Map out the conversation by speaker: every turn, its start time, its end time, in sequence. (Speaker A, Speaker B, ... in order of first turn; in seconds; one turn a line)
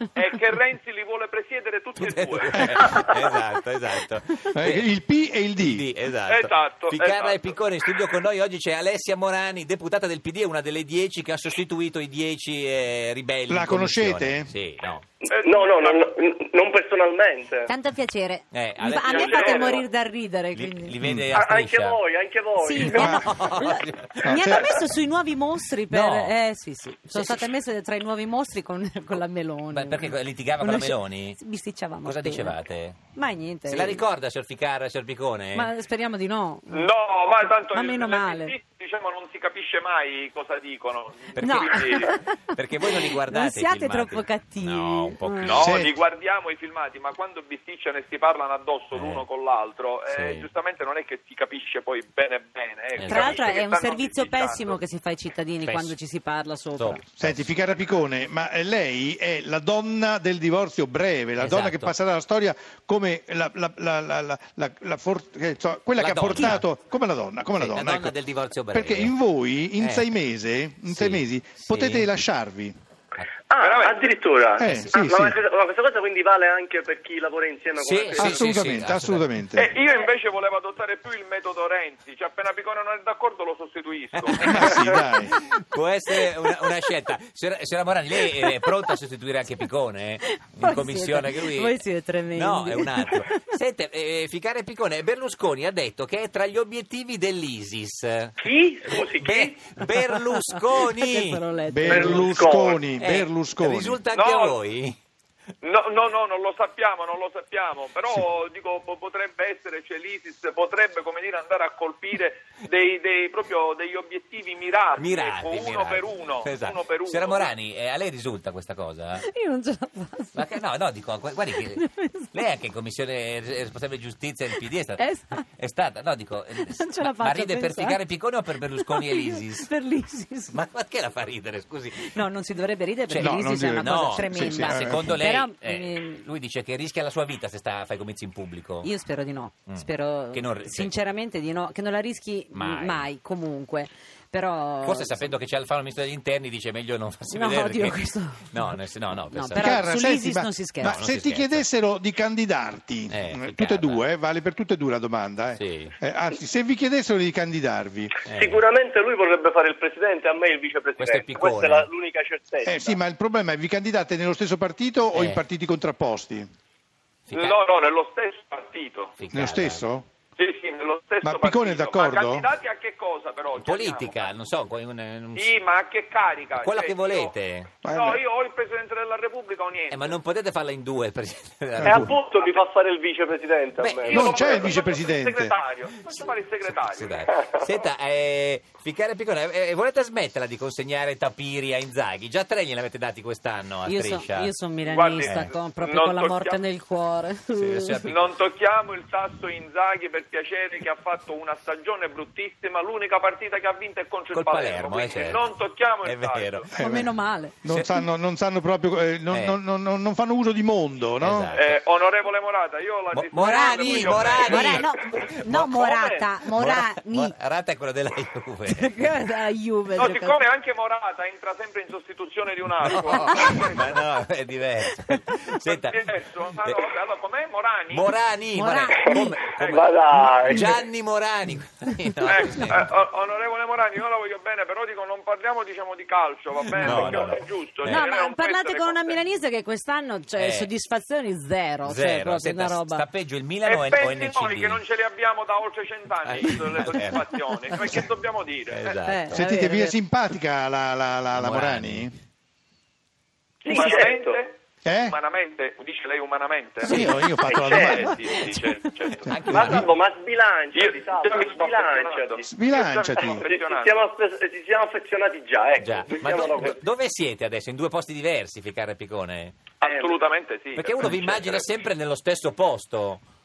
Speaker A: 0.1-2.8
Speaker B: 2.0-4.9
Speaker C: 4.5-5.8
Speaker B: 5.6-15.1
Speaker A: 6.3-7.5
Speaker C: 13.5-14.5
Speaker D: 15.2-17.7
Speaker A: 15.3-16.0
Speaker E: 17.6-20.9
Speaker B: 18.5-19.5
Speaker D: 19.1-19.8
Speaker A: 19.2-19.8
Speaker B: 20.5-22.0
Speaker D: 21.3-23.1
Speaker E: 22.6-32.6
Speaker C: 22.9-23.3
Speaker B: 22.9-24.7
Speaker C: 24.2-24.7
Speaker B: 25.9-26.3
Speaker B: 27.1-27.5
Speaker B: 29.7-31.4
Speaker B: 32.0-33.0
Speaker E: 33.1-34.0
Speaker B: 33.7-35.7
Speaker E: 35.5-36.9
Speaker A: 36.7-42.1
Speaker E: 37.7-38.5
Speaker B: 41.3-41.9
Speaker E: 41.4-45.6
Speaker B: 42.5-45.7
Speaker A: 45.5-54.8
Speaker C: 45.6-45.9
Speaker B: 48.9-49.2
Speaker B: 50.1-50.5
Speaker B: 52.9-53.5
Speaker E: 53.0-57.0
Speaker B: 55.6-55.9
Speaker B: 56.8-57.5
Speaker C: 57.2-68.1
Speaker B: 61.4-61.9
Speaker B: 66.0-66.7
Speaker B: 67.6-69.2
Speaker C: 68.7-72.7
Speaker B: 69.8-70.1
Speaker B: 70.9-72.1
Speaker D: 73.5-78.5
Speaker A: 73.6-74.0
Speaker C: 74.6-75.4
Speaker B: 74.6-75.0
Speaker B: 77.8-79.2
Speaker C: 78.2-79.7
Speaker A: 79.6-84.7
Speaker B: 84.1-91.8
Speaker C: 84.4-85.3
Speaker E: 88.4-88.8
Speaker E: 90.3-93.2
Speaker B: 92.3-98.4
Speaker D: 98.4-99.5
Speaker B: 99.0-101.4
Speaker E: 100.9-102.5
Speaker C: 101.7-104.0
Speaker D: 101.9-102.8
Speaker B: 103.0-105.0
Speaker A: 104.1-104.5
Speaker A: 105.6-117.5
Speaker B: 115.0-119.2
Speaker E: 119.2-120.5
Speaker B: 120.3-125.0
Speaker E: 121.7-122.4
Speaker E: 125.0-125.5
Speaker B: 125.5-129.7
Speaker E: 126.6-128.0
Speaker E: 128.6-130.6
Speaker B: 130.5-132.1
Speaker E: 132.0-136.2
Speaker C: 133.1-135.2
Speaker B: 133.1-138.9
Speaker E: 138.8-145.3
Speaker B: 139.7-140.9
Speaker B: 142.5-143.1
Speaker B: 144.8-149.8
Speaker E: 147.3-148.7
Speaker E: 149.3-151.0
Speaker C: 149.6-158.1
Speaker B: 150.8-151.7
Speaker B: 153.1-154.1
Speaker B: 155.6-155.9
Speaker B: 158.2-158.6
Speaker D: 158.3-163.0
Speaker B: 161.0-161.9
Speaker C: 162.6-166.5
Speaker B: 165.1-165.4
Speaker B: 167.3-167.6
Speaker A: 167.3-169.1
Speaker B: 169.2-169.8
Speaker C: 169.3-170.1
Speaker A: 170.4-174.3
Speaker C: 171.2-172.5
Speaker B: 173.6-175.5
Speaker A: 175.3-180.1
Speaker B: 176.5-177.7
Speaker C: 177.8-178.2
Speaker B: 179.9-182.1
Speaker C: 181.8-182.1
Speaker D: 181.8-184.7
Speaker B: 183.8-184.2
Speaker A: 184.1-187.2
Speaker C: 184.1-185.5
Speaker B: 186.9-194.5
Speaker E: 193.8-198.1
Speaker A: 194.8-196.6
Speaker B: 195.2-195.5
Speaker B: 197.6-198.1
Speaker A: 198.1-206.7
Speaker B: 204.3-205.5
Speaker B: 206.0-206.7
Speaker C: 206.7-211.5
Speaker E: 206.8-207.6
Speaker B: 207.7-207.9
Speaker B: 209.3-209.6
Speaker B: 211.2-211.8
Speaker A: 211.5-214.9
Speaker B: 213.1-219.0
Speaker E: 213.4-217.3
Speaker E: 218.7-220.4
Speaker A: 219.9-223.9
Speaker B: 222.8-226.0
Speaker E: 223.1-223.7
Speaker A: 225.7-228.1
Speaker B: 226.6-226.9
Speaker B: 227.9-232.9
Speaker E: 228.5-229.4
Speaker D: 229.1-230.7
Speaker A: 229.6-229.8
Speaker A: 232.2-239.2
Speaker B: 236.8-238.0
Speaker E: 237.8-243.0
Speaker B: 240.4-240.7
Speaker B: 241.8-244.8
Speaker A: 243.6-248.9
Speaker B: 246.2-248.0
Speaker B: 248.7-249.4
Speaker E: 249.1-250.0
Speaker C: 249.3-252.1
Speaker B: 251.3-252.1
Speaker D: 253.6-254.4
Speaker A: 253.6-257.0
Speaker C: 254.8-255.1
Speaker B: 256.8-257.3
Speaker C: 256.9-258.4
Speaker D: 257.5-258.1
Speaker A: 257.7-259.3
Speaker B: 259.3-259.9
Speaker D: 259.4-262.5
Speaker C: 259.5-259.8
Speaker A: 260.7-264.0
Speaker C: 262.4-263.5
Speaker D: 263.2-266.8
Speaker B: 265.8-269.6
Speaker A: 269.8-271.6
Speaker D: 269.8-270.2
Speaker B: 270.7-273.2